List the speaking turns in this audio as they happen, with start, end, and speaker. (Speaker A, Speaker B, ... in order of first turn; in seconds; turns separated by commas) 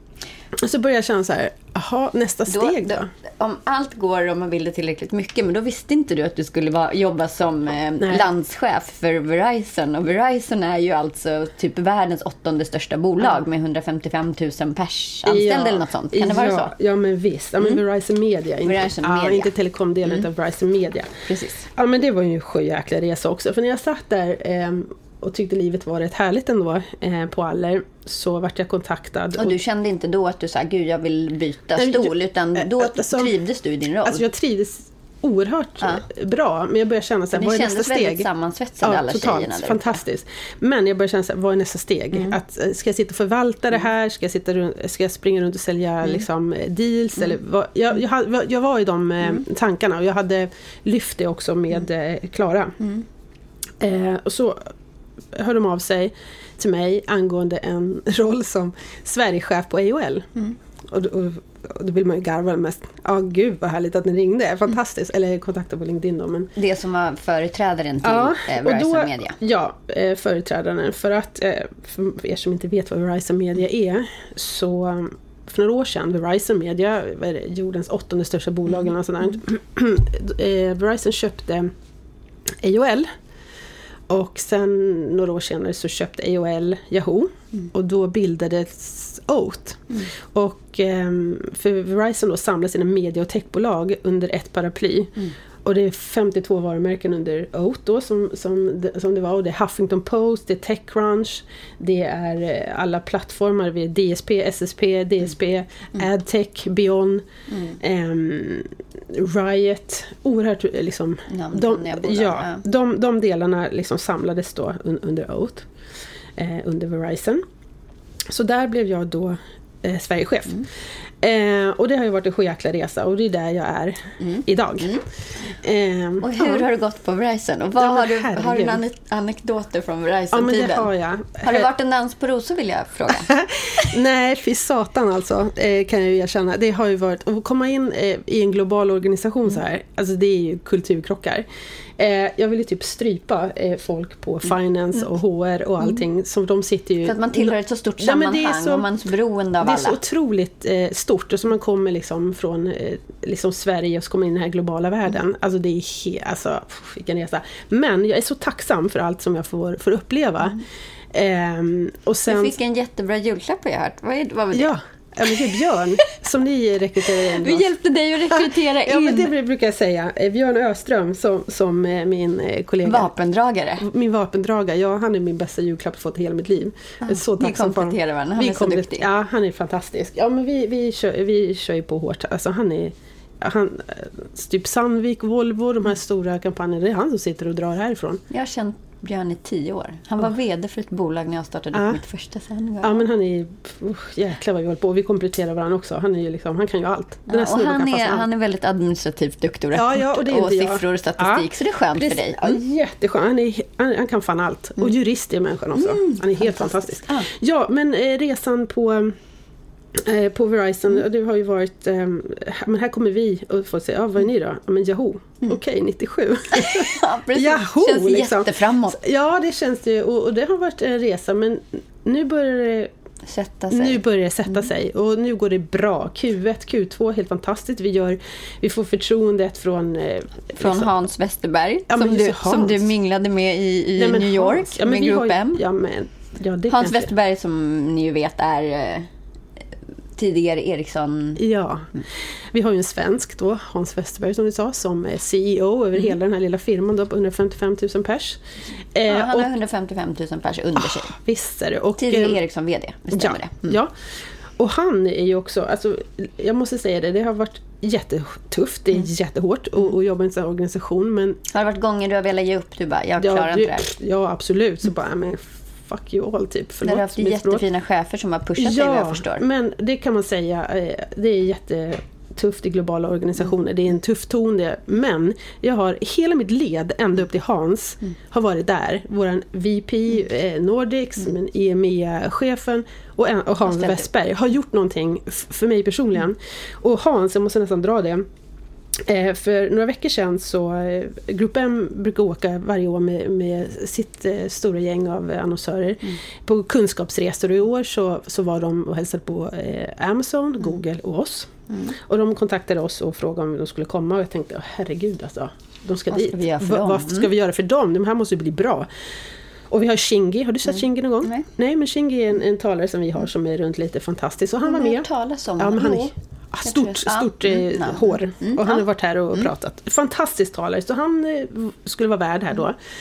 Speaker A: 0.6-3.1, Speaker B: 2.5-16.7, Speaker A: 8.0-8.3, Speaker A: 15.2-29.6, Speaker B: 18.6-19.5, Speaker B: 21.2-21.6, Speaker B: 29.4-34.2, Speaker A: 31.7-33.3, Speaker A: 34.0-38.3, Speaker B: 37.3-40.0, Speaker A: 38.8-52.8, Speaker A: 53.8-54.7, Speaker A: 55.3-60.3, Speaker A: 60.9-66.5, Speaker B: 66.5-69.3, Speaker A: 68.0-81.7, Speaker A: 82.6-83.1, Speaker A: 84.1-107.2, Speaker B: 107.5-107.8, Speaker A: 107.8-115.7, Speaker B: 111.3-112.6, Speaker A: 116.3-117.4, Speaker A: 118.3-120.7, Speaker A: 121.2-124.9, Speaker B: 124.2-125.0, Speaker A: 125.5-126.6, Speaker B: 126.2-133.8, Speaker A: 127.8-128.8, Speaker A: 130.3-131.7, Speaker A: 133.1-141.4, Speaker A: 142.0-148.9, Speaker B: 147.0-150.0, Speaker A: 149.6-160.6, Speaker A: 161.1-162.6, Speaker B: 162.3-164.7, Speaker A: 164.5-167.7, Speaker B: 167.2-169.3, Speaker A: 168.3-173.1, Speaker B: 172.8-173.8, Speaker A: 173.8-188.2, Speaker B: 177.0-179.1, Speaker B: 188.3-193.0, Speaker A: 191.7-192.0, Speaker A: 192.8-198.3, Speaker B: 197.3-202.6, Speaker A: 199.7-209.2, Speaker B: 205.8-207.3, Speaker A: 209.9-222.9, Speaker B: 216.5-219.0, Speaker B: 223.2-224.0, Speaker A: 223.7-230.9, Speaker B: 230.6-235.6, Speaker A: 231.9-232.9, Speaker A: 233.9-237.1, Speaker B: 236.7-239.1, Speaker B: 240.2-241.4, Speaker A: 241.4-241.9, Speaker A: 242.5-248.4, Speaker A: 248.9-249.5, Speaker B: 249.1-251.2, Speaker A: 250.8-252.4, Speaker B: 252.0-253.7, Speaker A: 253.1-253.9, Speaker A: 254.6-261.4, Speaker B: 261.5-263.9, Speaker A: 263.2-267.6, Speaker B: 266.8-269.4, Speaker A: 268.6-288.2, Speaker B: 283.7-284.0, Speaker A: 288.9-308.9, Speaker B: 306.1-307.3, Speaker A: 309.7-315.1, Speaker B: 314.6-316.1, Speaker A: 315.6-322.8, Speaker B: 316.6-318.8